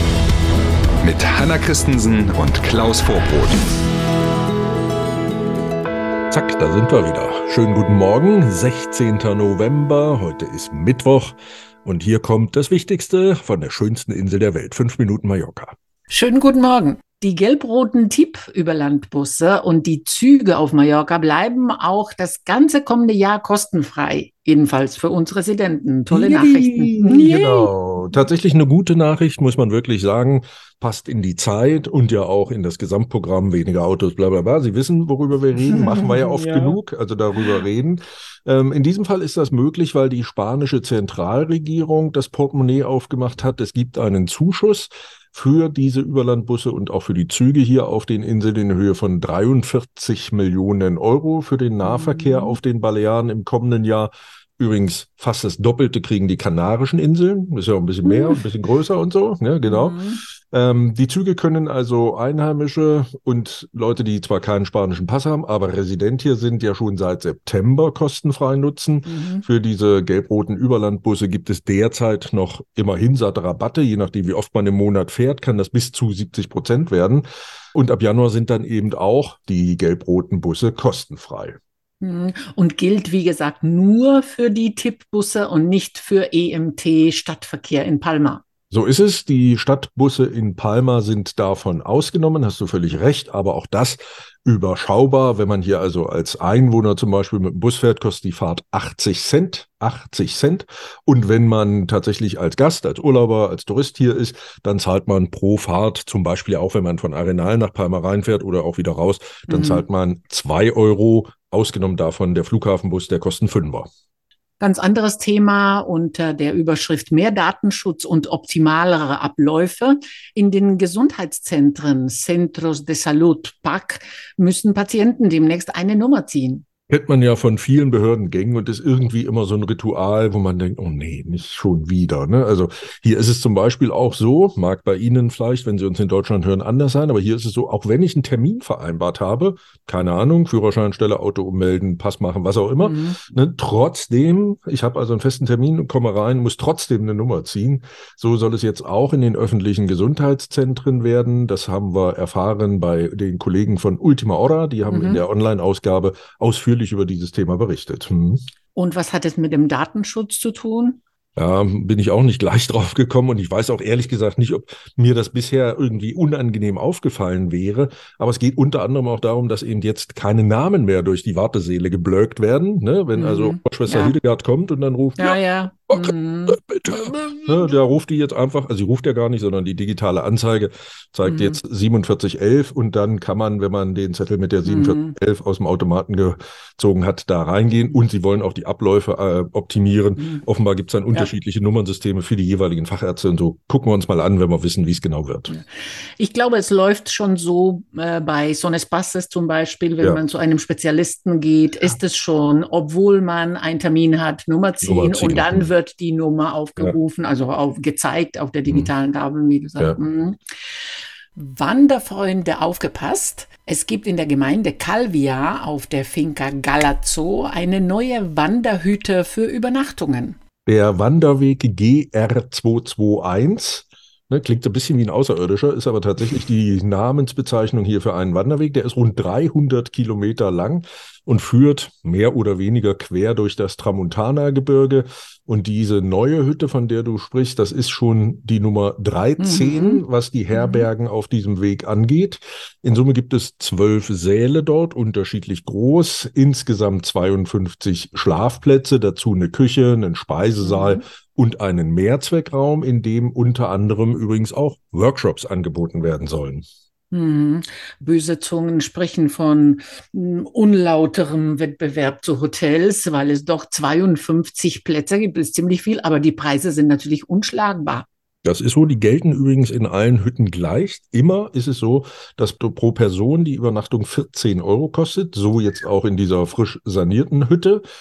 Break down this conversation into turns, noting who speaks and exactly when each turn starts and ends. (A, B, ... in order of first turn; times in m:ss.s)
0:01.0-0:03.6 A
0:06.3-0:15.8 B
0:16.1-0:27.7 C
0:26.1-1:21.6 B
0:35.6-0:36.8 C
0:51.8-0:52.6 C
0:58.0-0:58.4 C
0:59.7-1:00.2 C
1:09.1-1:09.5 C
1:22.0-1:28.4 C
1:28.7-1:53.9 B
1:49.5-1:49.8 C
1:54.6-2:06.6 C
2:06.9-2:38.4 B
2:22.8-2:23.2 C
2:34.9-2:35.2 C
2:38.8-2:41.0 C
2:41.4-3:15.5 B
2:53.1-2:54.2 C
2:55.2-2:57.2 C
3:01.3-3:01.6 C
3:04.6-3:05.2 C
3:16.2-3:30.4 C
3:24.8-3:25.7 B
3:31.4-3:40.4 C
3:40.7-4:16.6 B
3:59.4-4:00.9 C
4:10.6-4:11.0 C
4:17.1-4:28.1 C
4:28.4-4:37.8 B